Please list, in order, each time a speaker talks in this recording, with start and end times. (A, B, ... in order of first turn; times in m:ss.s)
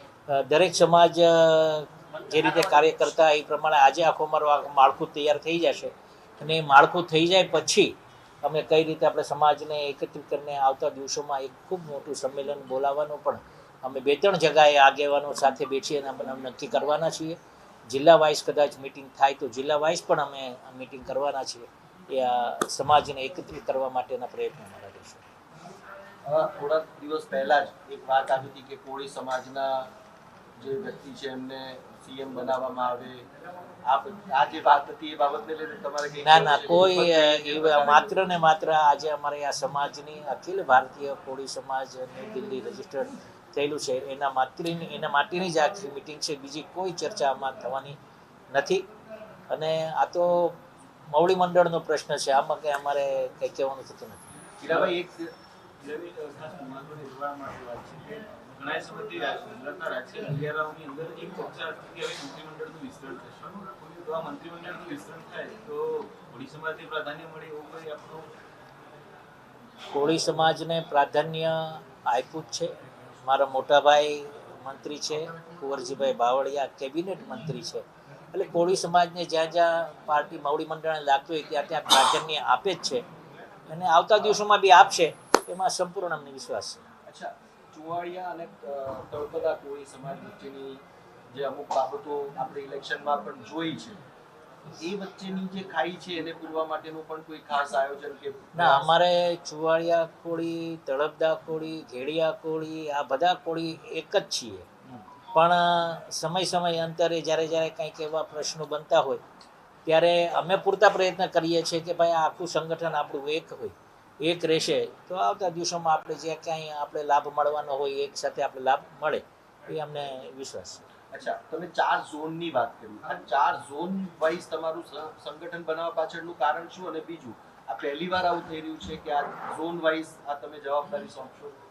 0:00.3-0:17.4 A
0:17.9-0:25.2 A
0:26.2-0:29.9 B
0:30.6-0:33.2 B
0:33.8-0:38.1 B
0:36.2-0:48.0 A
0:48.5-0:48.8 A
0:49.5-0:50.6 A
0:51.1-0:54.3 A
0:54.6-0:55.3 B
0:54.6-0:54.9 C
0:55.8-1:08.3 C
1:09.9-1:12.7 A
1:13.2-1:23.0 A
1:23.7-1:26.8 A
1:27.1-1:34.0 B
1:34.8-1:38.9 B
1:38.5-1:44.7 A
1:45.3-1:49.2 A
1:49.8-2:00.8 A
2:01.1-2:11.5 B